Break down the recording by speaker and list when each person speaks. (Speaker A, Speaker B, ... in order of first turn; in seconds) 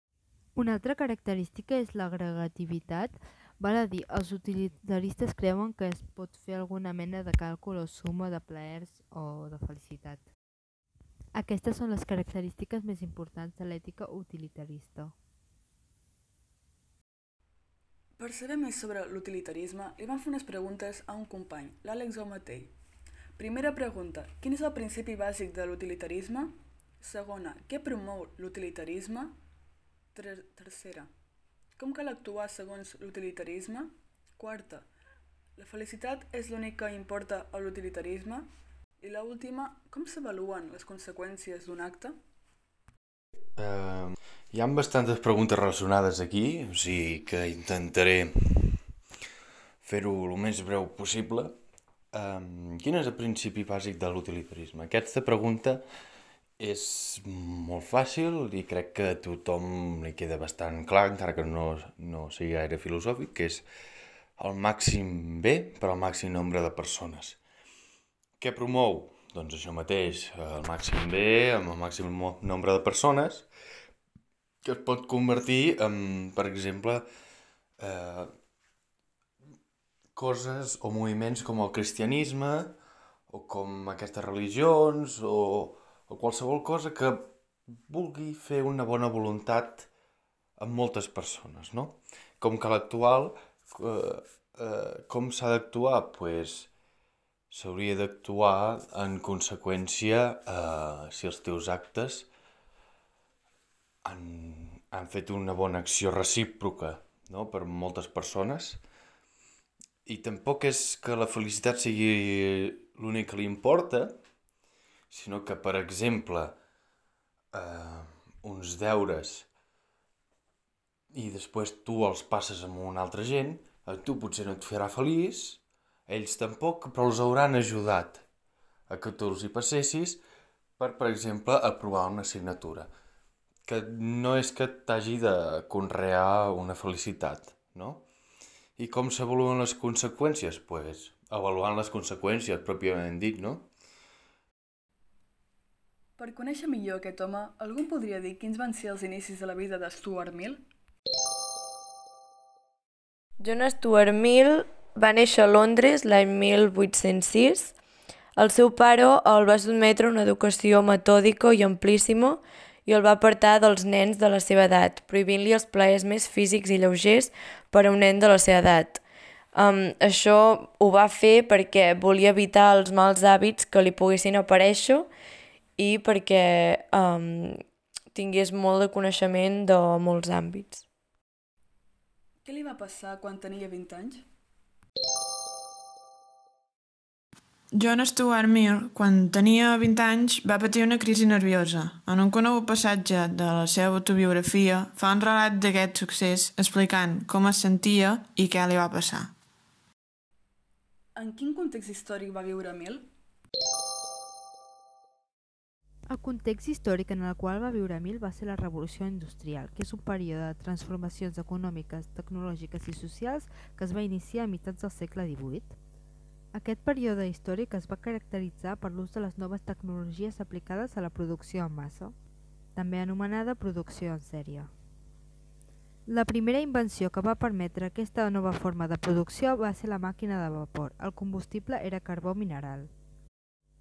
Speaker A: 0.6-10.3, 11.3-15.1, 206.1-215.8, 216.5-222.2, 222.8-224.7, 226.1-232.9
Speaker B: 18.2-22.7, 23.4-29.4, 30.1-31.1, 31.8-34.9, 35.6-38.5, 39.0-42.1, 146.2-150.6, 182.4-184.2, 201.2-203.0
Speaker C: 43.6-48.8, 49.8-51.5, 52.1-55.8, 56.6-63.6, 64.4-67.4, 68.4-73.5, 74.6-77.1, 77.8-78.3, 80.2-82.7, 83.3-87.3, 87.9-89.9, 90.6-96.7, 97.5-102.3, 104.0-108.8, 110.1-114.2, 115.1-116.6, 117.5-119.5, 121.1-128.2, 128.9-130.2, 130.8-132.9, 133.7-138.1, 138.8-143.7
Speaker D: 153.4-157.7, 158.4-169.0, 169.5-175.1, 175.8-177.6, 178.1-180.8
Speaker E: 187.7-199.3